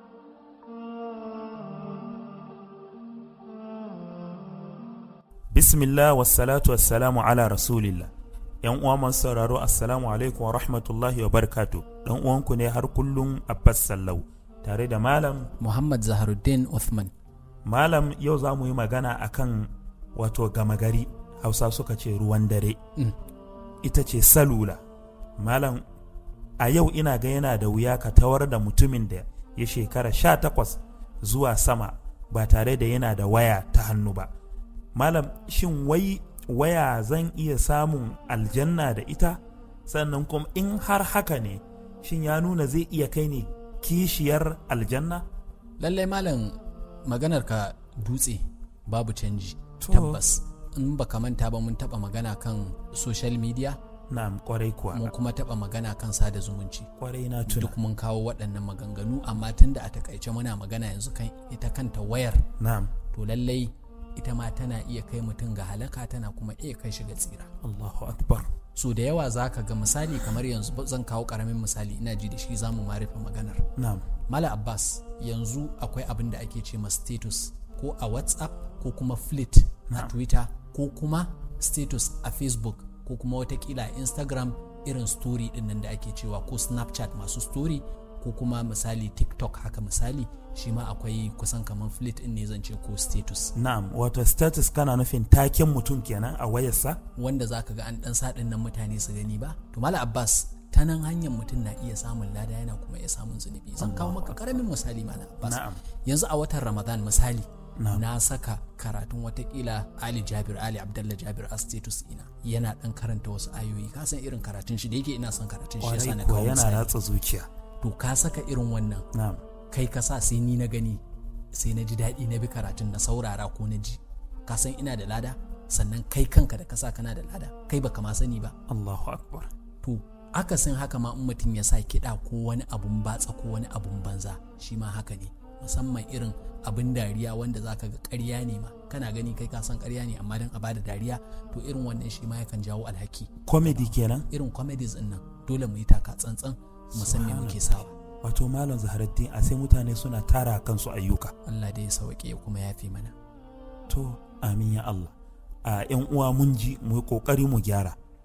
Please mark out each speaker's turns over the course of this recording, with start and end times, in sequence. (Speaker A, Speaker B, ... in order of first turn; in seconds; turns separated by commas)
Speaker A: 5.5-8.1, Speaker A: 8.6-15.5, Speaker B: 15.6-17.1, Speaker A: 17.6-22.8, Speaker A: 23.8-24.8, Speaker A: 25.4-25.8, Speaker A: 26.6-34.3, Speaker A: 34.9-45.2, Speaker B: 45.8-53.8, Speaker A: 49.8-50.2, Speaker A: 54.1-55.1, Speaker B: 54.9-56.9, Speaker A: 57.0-57.8, Speaker B: 57.5-62.5, Speaker A: 62.6-62.9, Speaker B: 63.1-67.5, Speaker A: 67.6-68.5, Speaker B: 68.7-73.7, Speaker A: 73.8-74.1, Speaker B: 74.3-93.5, Speaker A: 79.9-80.1, Speaker A: 93.5-97.0, Speaker B: 97.2-117.0, Speaker A: 103.8-104.4, Speaker A: 105.4-105.8, Speaker A: 107.8-108.0, Speaker A: 115.8-117.5, Speaker B: 117.8-119.1, Speaker A: 119.1-119.4, Speaker B: 119.7-128.6, Speaker A: 128.7-129.5, Speaker B: 129.8-147.9, Speaker A: 143.4-144.3, Speaker A: 146.9-151.3, Speaker B: 151.4-153.1, Speaker A: 153.9-157.9